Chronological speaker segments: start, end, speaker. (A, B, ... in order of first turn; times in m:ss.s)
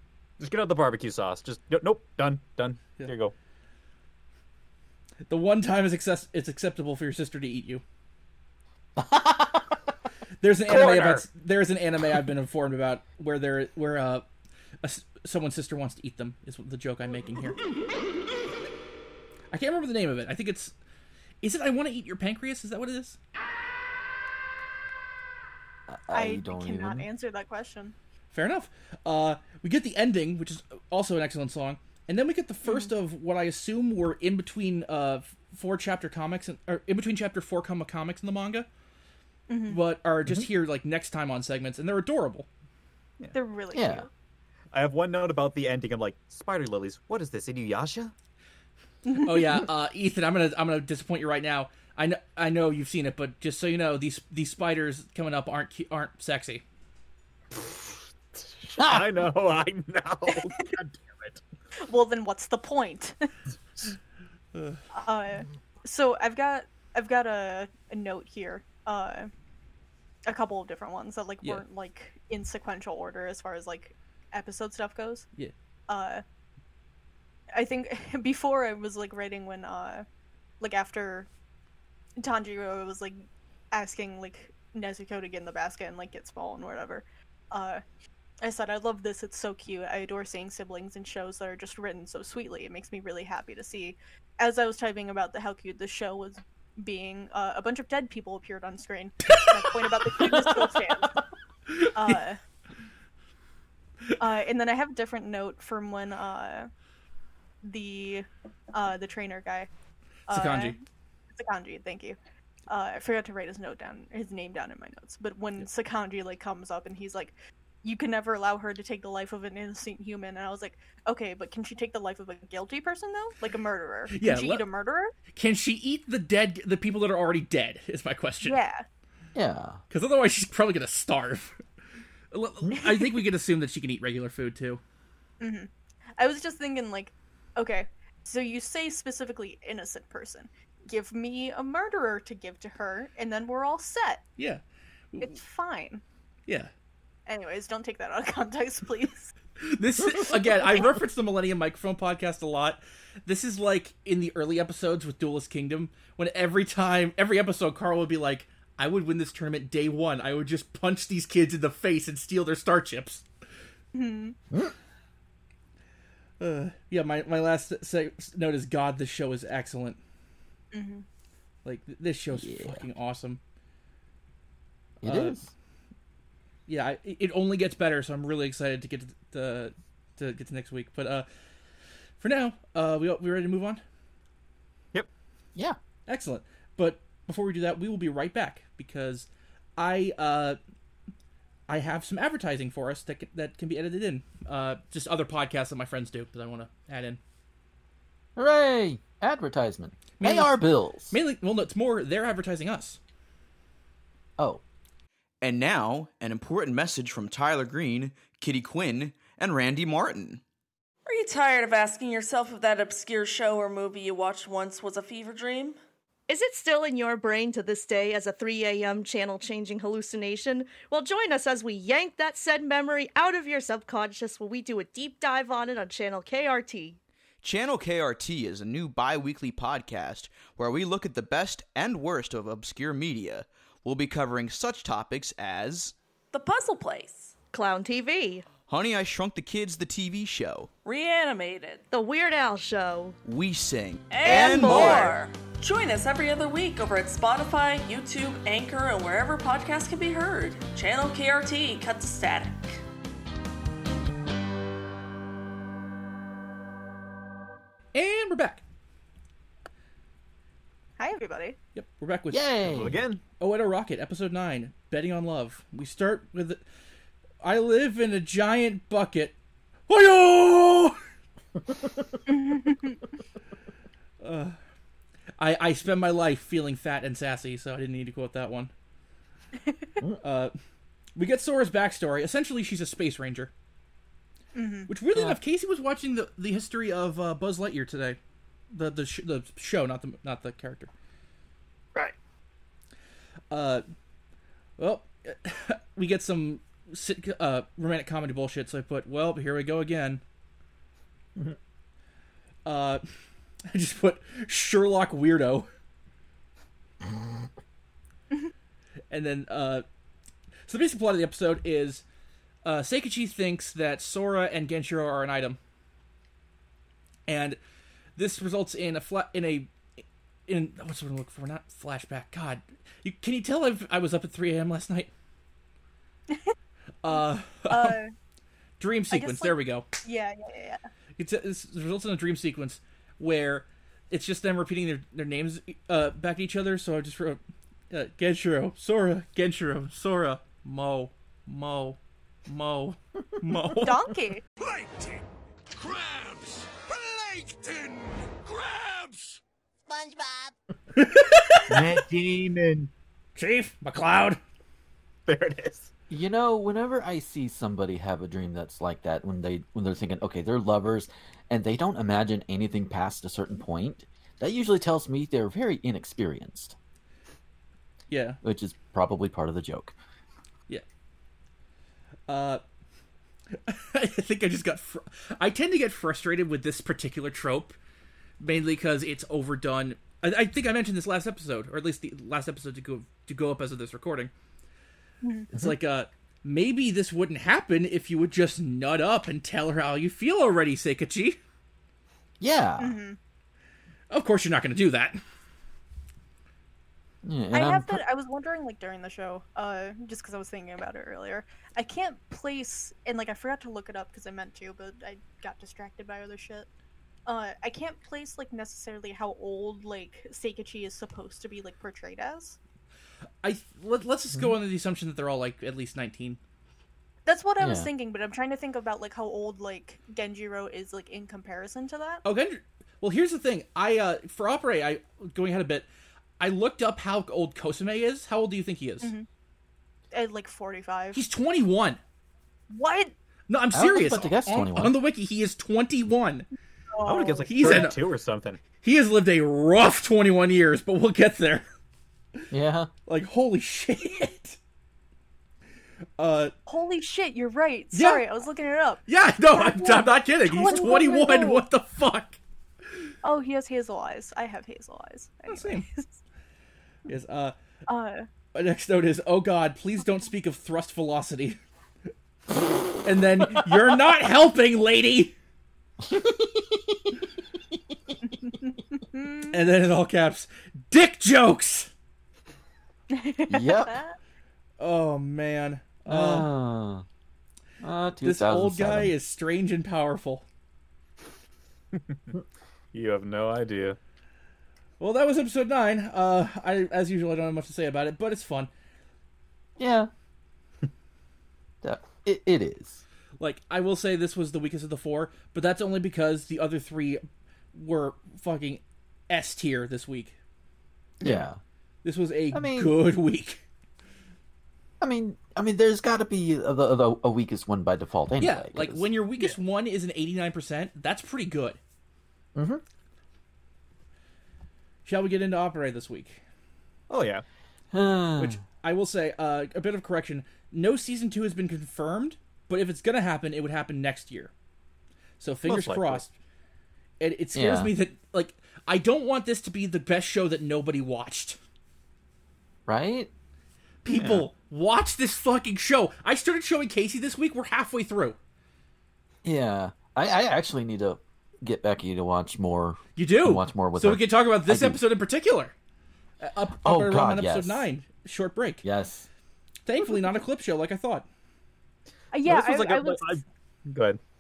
0:00.4-0:03.3 A
0:05.3-0:07.8 B
0:09.0-0:09.8 C
0:10.4-0:14.2 B
0:10.7-0:11.2 A
0:14.8-0:17.6 B
0:19.5-0:20.7 B
0:21.4-0:23.2 B
0:25.9-0:27.1 C
0:26.1-0:28.0 D
0:28.3-0:38.7 B
0:32.6-0:32.9 D
0:39.5-0:39.8 D
0:39.7-0:42.5 B
0:43.3-0:44.1 D
0:43.7-0:44.1 C
0:44.7-0:48.1 A
0:49.0-0:49.6 D
0:49.2-0:56.6 B
0:57.5-1:01.4 A
0:58.8-0:59.1 C
1:01.8-1:03.2 D
1:04.5-1:04.8 B
1:04.9-1:09.3 D
1:10.3-1:15.3 D
1:15.9-1:16.2 D
1:17.5-1:20.1 D
1:20.6-1:21.3 D
1:22.2-1:27.8 D
1:28.4-1:41.2 D
1:41.7-1:42.2 B
1:41.9-1:42.4 D
1:44.2-1:46.7 D
1:47.6-1:49.7 D
1:50.3-1:50.8 D
1:50.3-1:50.8 B
1:51.3-1:52.2 D
1:52.7-2:05.1 D
2:04.1-2:04.6 B
2:05.3-2:08.6 B
2:08.4-2:08.8 D
2:09.4-2:09.8 C
2:09.9-2:11.6 B
2:12.3-2:14.8 B
2:15.4-2:24.2 D
2:25.1-2:25.4 B
2:25.2-2:26.0 D
2:27.3-2:29.3 D
2:29.6-2:43.2 B
2:43.9-2:44.4 D
2:46.4-2:50.0 B
2:50.7-2:51.1 D
2:51.6-2:53.4 B
2:52.3-2:52.8 C
2:55.0-2:55.5 C
2:55.0-2:55.4 B
2:56.7-3:01.3 B
3:02.2-3:03.8 B
3:06.1-3:10.6 B
3:11.7-3:17.2 B
3:18.4-3:21.2 C
3:20.2-3:23.0 B
3:25.4-3:30.4 E
3:31.1-3:35.8 F
3:36.3-3:47.0 G
3:47.4-3:56.0 E
3:56.3-3:57.4 F
3:57.5-3:58.4 G
3:58.7-4:00.7 E
4:00.8-4:01.9 F
4:01.9-4:03.2 G
4:03.2-4:05.2 E
4:04.1-4:12.8 F
4:04.2-4:05.1 G
4:17.9-4:18.6 B
4:21.0-4:21.6 D
4:21.8-4:22.5 B
4:22.3-4:23.0 C
4:22.6-4:23.2 A
4:23.4-4:26.6 B
4:27.4-4:29.4 B
4:29.9-4:31.0 B
4:32.3-4:33.0 D
4:34.2-4:34.6 B
4:35.4-4:38.7 B
4:39.6-4:39.9 D
4:40.2-4:40.5 B
4:41.2-4:43.5 B
4:44.6-4:44.9 D
4:44.9-4:48.2 B
4:45.1-4:45.4 C
4:48.7-4:50.9 B
4:53.5-4:53.8 B
4:54.8-5:00.2 B
5:02.6-5:03.0 B
5:03.7-5:05.7 B
5:09.1-5:09.8 B
5:10.7-5:12.0 B
5:12.6-5:15.6 B
5:17.3-5:17.6 B
5:18.2-5:19.7 B
5:20.5-5:25.1 B
5:27.0-5:28.0 B
5:27.1-5:28.1 D
5:28.8-5:29.9 B
5:29.1-5:30.8 D
5:31.2-5:44.1 B
5:43.8-5:44.4 D
5:44.7-5:45.1 E
5:45.8-5:49.4 E
5:50.9-5:52.0 B
5:51.7-5:52.9 A
5:53.4-5:54.4 B
5:55.3-5:55.9 A
5:56.1-6:06.8 C
6:08.1-6:08.4 B
6:08.4-6:10.0 C
6:12.3-6:12.6 B
6:13.5-6:17.8 B
6:18.4-6:24.3 B
6:25.2-6:25.5 D
6:25.5-6:31.4 B
6:32.4-6:33.0 C
6:32.8-6:33.2 D
6:34.1-6:35.2 B
6:37.2-6:38.0 C
6:37.5-6:46.7 D
6:47.3-6:52.6 D
6:53.4-6:56.4 B
6:57.3-7:02.2 D
6:57.6-6:57.9 C
7:02.2-7:05.9 B
7:06.4-7:09.1 B
7:09.0-7:09.3 D
7:10.1-7:11.2 D
7:11.1-7:12.0 B
7:12.7-7:13.1 D
7:13.5-7:16.5 B
7:13.7-7:15.0 C
7:16.9-7:17.9 D
7:17.0-7:18.6 A
7:17.5-7:18.0 B
7:18.8-7:21.7 B
7:22.5-7:22.9 C
7:23.1-7:24.6 B
7:26.2-7:26.5 B
7:26.7-7:31.6 D
7:27.9-7:28.2 B
7:29.1-7:32.4 B
7:33.2-7:36.2 D
7:35.5-7:35.9 B
7:37.1-7:37.6 B
7:37.9-7:38.3 D
7:38.5-7:41.6 B
7:43.0-7:45.3 B
7:46.0-7:47.2 C
7:48.2-7:49.6 D
7:49.5-7:51.9 B
7:53.1-7:54.2 D
7:53.5-7:54.0 C
7:54.8-7:56.5 B
7:56.1-7:57.0 C
7:57.8-7:59.1 C
7:58.2-8:00.4 B
8:01.9-8:02.3 A
8:02.9-8:04.0 A
8:05.0-8:08.7 B
8:09.8-8:10.1 C
8:11.8-8:13.0 C
8:13.4-8:20.4 B
8:21.2-8:21.6 C
8:22.0-8:23.6 B
8:22.5-8:23.0 C
8:25.0-8:29.1 C
8:28.4-8:31.8 B
8:32.6-8:32.8 C
8:35.1-8:36.4 B
8:37.1-8:37.4 A
8:37.9-8:38.6 C
8:38.4-8:44.5 B
8:45.4-8:46.3 B
8:45.7-8:46.2 A
8:47.2-8:51.6 B
8:47.6-8:47.9 C
8:52.9-8:53.3 C
8:54.0-8:58.4 B
8:54.1-8:54.4 C
8:59.4-9:05.0 C
9:03.2-9:05.7 B
9:06.4-9:08.8 B
9:06.8-9:07.9 C
9:08.8-9:09.3 C
9:09.9-9:11.3 B
9:12.3-9:13.4 D
9:12.5-9:14.2 A